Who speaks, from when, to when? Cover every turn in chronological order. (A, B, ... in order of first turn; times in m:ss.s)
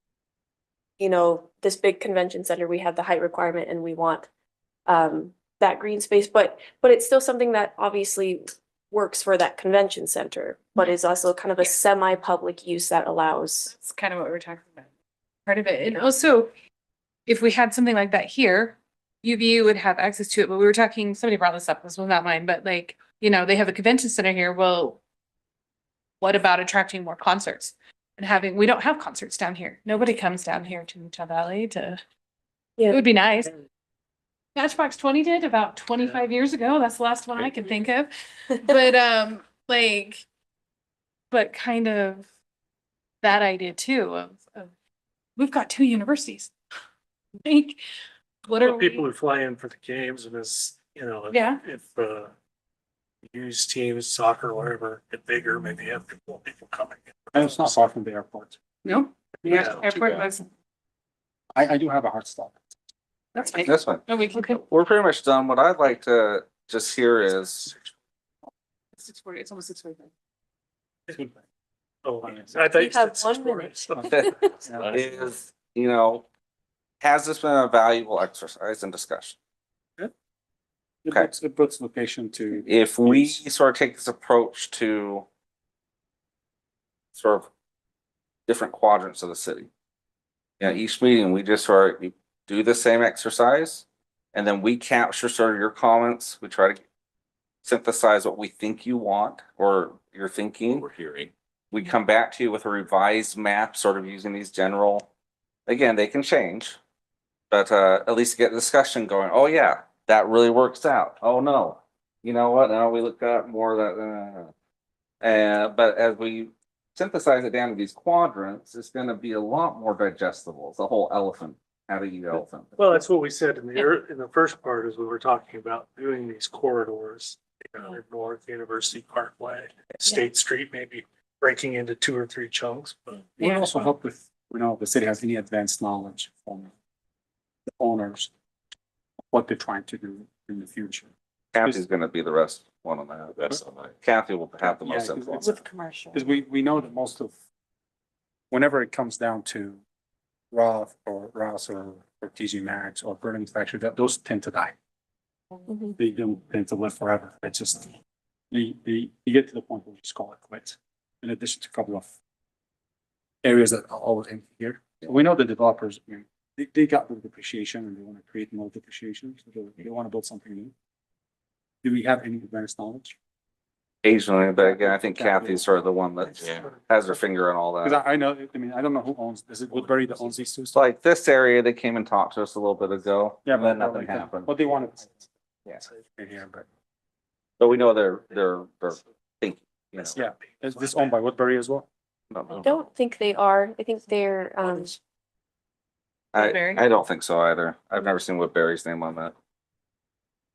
0:01.0-0:04.3 A
0:04.9-0:13.7 A
0:13.7-0:14.9 B
0:15.5-0:16.5 B
0:17.3-0:25.0 B
0:26.2-0:32.0 B
0:32.9-0:33.5 B
0:34.6-0:40.2 B
0:41.3-0:42.3 B
0:43.2-0:44.7 B
0:45.4-0:46.5 B
0:47.4-0:47.8 B
0:48.5-0:49.0 B
0:48.6-0:52.3 C
0:51.3-0:51.6 B
0:53.3-0:57.1 C
0:57.3-0:58.6 D
0:58.8-1:00.5 B
0:59.4-0:59.7 D
0:59.5-0:59.8 C
1:01.5-1:02.6 D
1:03.4-1:04.6 B
1:03.5-1:07.7 E
1:07.3-1:07.9 C
1:09.0-1:10.1 B
1:12.0-1:15.1 C
1:12.2-1:12.7 D
1:12.8-1:14.5 A
1:14.0-1:15.0 D
1:14.8-1:15.3 F
1:14.9-1:16.3 E
1:17.0-1:19.4 E
1:21.0-1:23.4 D
1:22.7-1:25.3 E
1:27.2-1:27.5 E
1:28.5-1:29.7 E
1:30.6-1:36.8 E
1:37.6-1:40.9 E
1:40.7-1:41.3 F
1:41.7-1:45.1 E
1:45.7-1:46.8 E
1:47.5-1:54.5 E
1:55.2-2:02.8 E
2:02.8-2:13.9 C
2:13.4-2:16.7 D
2:17.8-2:18.3 D
2:19.3-2:21.1 D
2:21.5-2:23.4 E
2:23.3-2:23.9 F
2:24.0-2:25.5 E
2:24.6-2:27.3 D
2:28.5-2:29.8 D
2:30.5-2:34.7 D
2:35.7-2:35.9 A
2:36.0-2:37.9 D
2:38.5-2:42.1 D
2:43.4-2:50.7 D
2:51.8-2:53.2 D
2:54.0-2:58.0 E
2:54.6-2:55.7 D
2:56.4-2:56.7 F
2:57.8-3:00.8 D
3:00.7-3:04.5 E
3:03.5-3:06.7 D
3:07.6-3:10.2 E
3:10.2-3:11.9 D
3:10.8-3:11.1 C
3:12.3-3:12.7 E
3:12.6-3:14.9 A
3:16.3-3:19.3 E
3:16.4-3:16.8 B